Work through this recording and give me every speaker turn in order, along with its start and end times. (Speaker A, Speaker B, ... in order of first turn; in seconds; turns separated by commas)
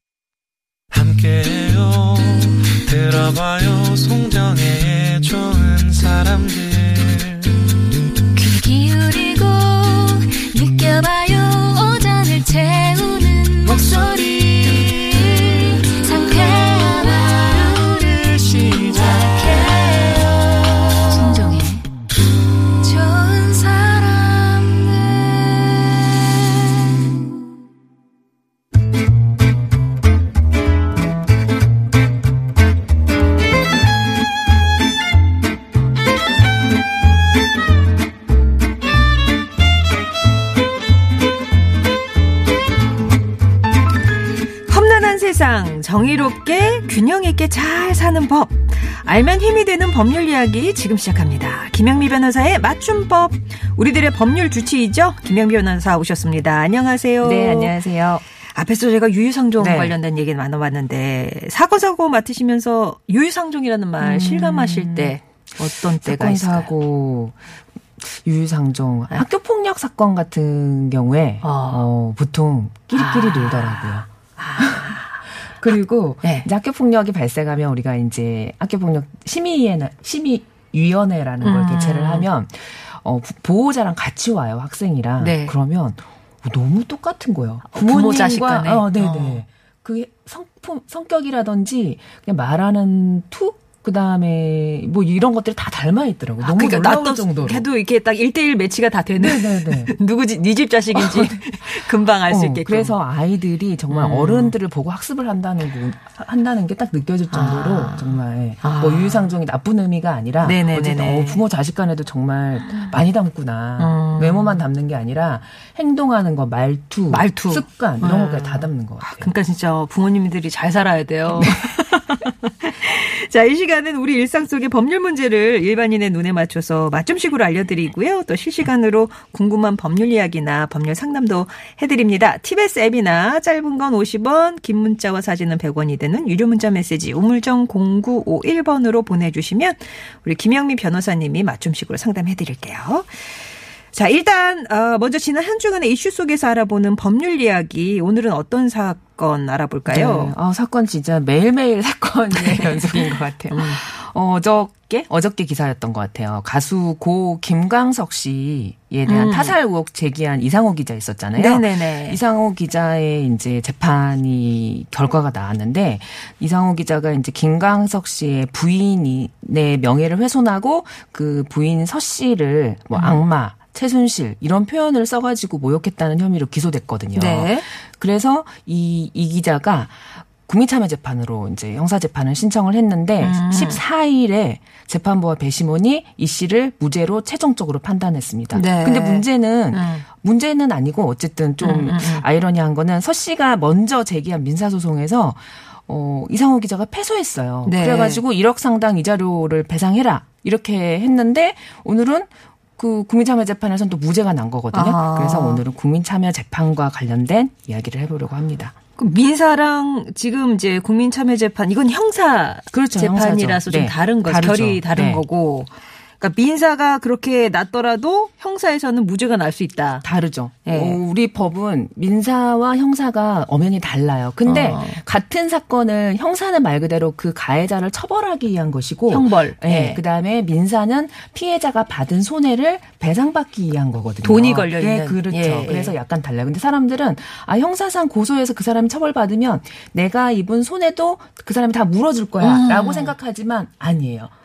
Speaker A: 0.9-7.5, Speaker B: 8.3-21.9, Speaker B: 22.8-26.0, Speaker C: 44.7-58.0, Speaker D: 57.2-58.2, Speaker C: 58.5-66.7, Speaker D: 59.6-60.0, Speaker D: 64.0-65.2, Speaker D: 66.0-67.4, Speaker D: 68.0-75.0, Speaker C: 71.4-71.8, Speaker C: 72.9-75.2, Speaker D: 75.6-97.6, Speaker C: 81.4-82.3, Speaker C: 85.2-85.5, Speaker C: 87.7-89.4, Speaker C: 96.4-103.0, Speaker D: 99.2-99.9, Speaker D: 100.9-119.3, Speaker C: 103.9-104.5, Speaker C: 107.3-109.3, Speaker C: 110.4-111.4, Speaker C: 113.8-114.6, Speaker C: 117.1-143.2, Speaker D: 121.4-122.0, Speaker C: 143.9-150.3, Speaker D: 149.9-208.7, Speaker C: 152.3-153.8, Speaker C: 159.1-159.5, Speaker C: 161.3-162.2, Speaker C: 172.9-173.2, Speaker C: 177.1-177.7, Speaker C: 183.2-183.8, Speaker C: 188.5-190.0, Speaker C: 191.6-192.2, Speaker C: 197.6-198.2, Speaker C: 204.7-205.6, Speaker C: 209.0-220.0, Speaker D: 212.7-215.2, Speaker D: 220.0-244.3, Speaker C: 220.6-221.0, Speaker C: 224.4-225.0, Speaker C: 229.1-230.0, Speaker C: 234.2-235.9, Speaker C: 242.4-243.1